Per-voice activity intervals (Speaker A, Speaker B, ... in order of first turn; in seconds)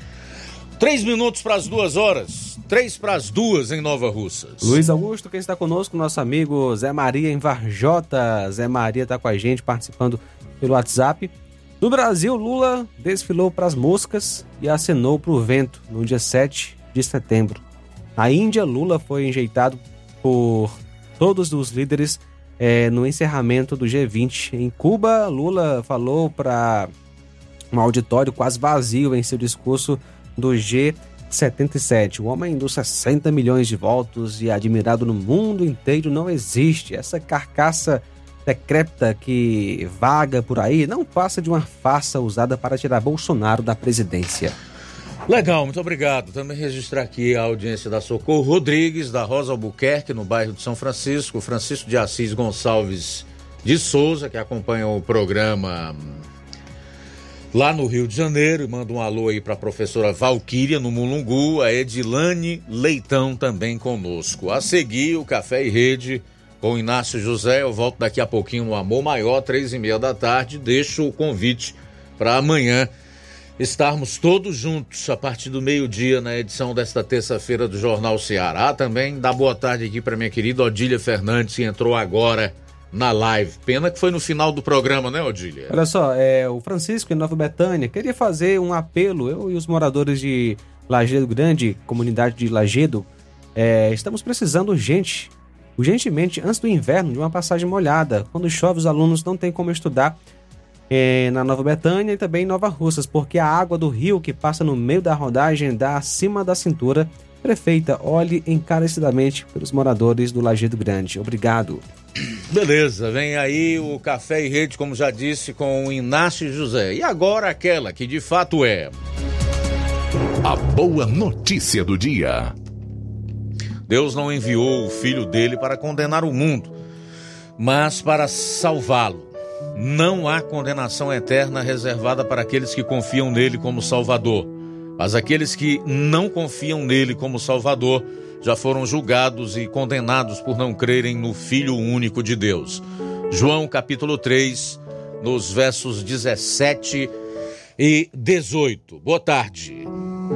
Speaker A: 0.8-4.8, 45.3-56.2, 57.5-72.9, 73.6-85.8, 112.5-119.0, 123.9-126.7, 127.6-147.1, 147.8-149.9
Speaker B: 4.6-17.6, 18.2-26.9, 27.7-44.5, 85.7-100.2, 100.9-111.8
Speaker C: 120.4-122.5